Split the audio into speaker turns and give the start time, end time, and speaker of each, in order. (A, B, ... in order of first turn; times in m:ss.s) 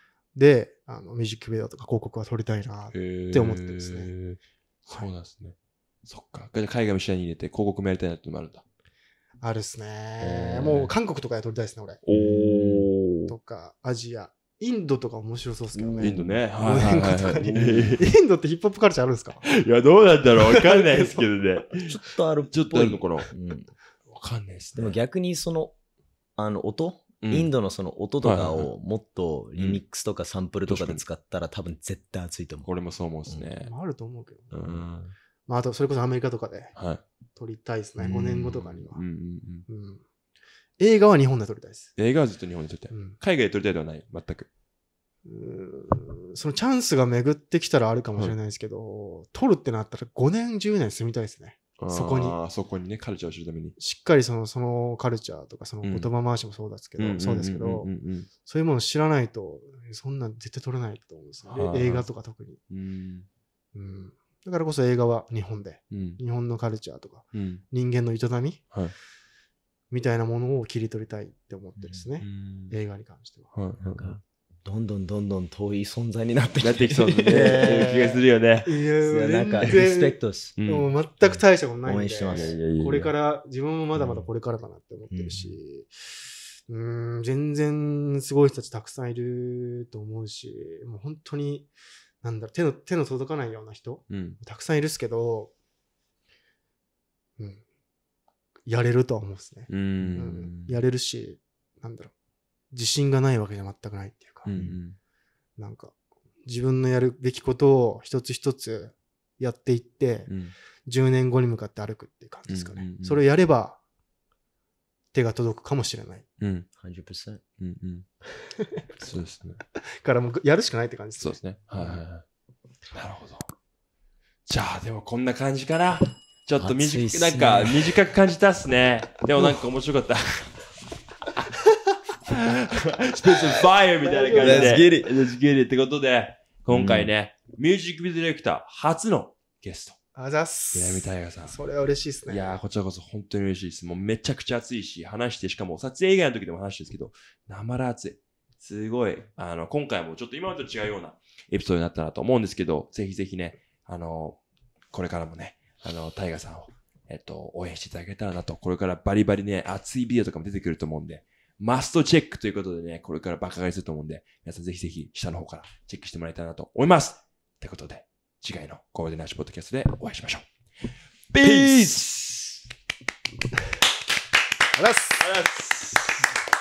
0:00.4-0:04.1 A
0:02.9-0:08.6 B
0:09.4-0:12.0 A
0:10.2-0:10.9 B
0:12.0-0:13.3 B
0:12.1-0:12.9 C
0:13.3-0:19.4 A
0:15.7-0:16.4 C
0:16.0-0:18.1 B
0:17.5-0:18.0 C
0:19.4-0:22.0 B
0:20.4-0:21.3 A
0:21.8-0:23.7 C
0:22.5-0:23.3 B
0:24.1-0:25.0 B
0:24.8-0:25.8 C
0:26.4-0:32.7 C
0:27.2-0:27.5 B
0:28.2-0:28.7 B
0:29.6-0:29.8 B
0:30.7-0:31.0 B
0:32.6-0:33.7 B
0:33.6-0:34.8 A
0:34.5-0:35.2 B
0:35.5-0:36.8 A
0:36.8-0:37.0 B
0:37.4-0:39.0 A
0:38.0-0:38.8 C
0:38.8-0:39.7 B
0:39.7-0:40.0 A
0:40.8-0:41.9 A
0:42.0-0:44.5 B
0:42.9-0:43.2 A
0:45.2-0:52.4 A
0:51.8-0:53.8 B
0:53.8-1:02.6 A
0:55.8-0:56.1 B
0:57.0-0:58.3 B
1:01.5-1:02.1 B
1:02.7-1:03.3 B
1:03.7-1:08.6 A
1:05.9-1:06.2 B
1:07.3-1:07.6 B
1:09.9-1:13.5 A
1:11.8-1:12.0 C
1:12.2-1:12.8 B
1:13.5-1:14.2 B
1:13.8-1:18.2 C
1:16.6-1:18.7 B
1:17.3-1:25.9 A
1:19.0-1:20.5 C
1:20.6-1:20.9 B
1:21.2-1:22.6 C
1:22.3-1:23.1 B
1:24.0-1:24.3 C
1:25.1-1:25.6 C
1:26.7-1:31.7 A
1:32.2-1:35.5 A
1:34.1-1:34.4 B
1:38.7-1:42.1 A
1:39.7-1:40.8 B
1:42.7-1:44.5 A
1:44.4-1:45.0 B
1:44.6-1:44.8 C
1:45.6-1:45.9 A
1:46.4-1:50.3 A
1:50.3-1:50.5 B
1:50.8-1:53.8 A
1:52.5-1:53.2 B
1:55.1-1:56.3 A
1:56.4-1:56.7 B
1:56.8-1:57.4 C
1:57.6-1:58.1 B
1:58.6-1:58.9 A
1:59.0-1:59.6 B
1:59.8-2:02.0 A
2:01.2-2:02.2 B
2:02.9-2:03.5 B
2:04.5-2:10.6 B
2:06.6-2:08.0 C
2:12.2-2:20.0 B
2:14.0-2:14.9 A
2:14.4-2:15.1 C
2:16.7-2:17.1 C
2:20.2-2:22.6 A
2:20.7-2:21.6 B
2:22.3-2:34.4 B
2:34.9-2:50.5 B
2:51.3-2:52.5 B
2:51.4-2:52.0 C
2:54.8-2:55.3 A
2:55.2-2:56.1 B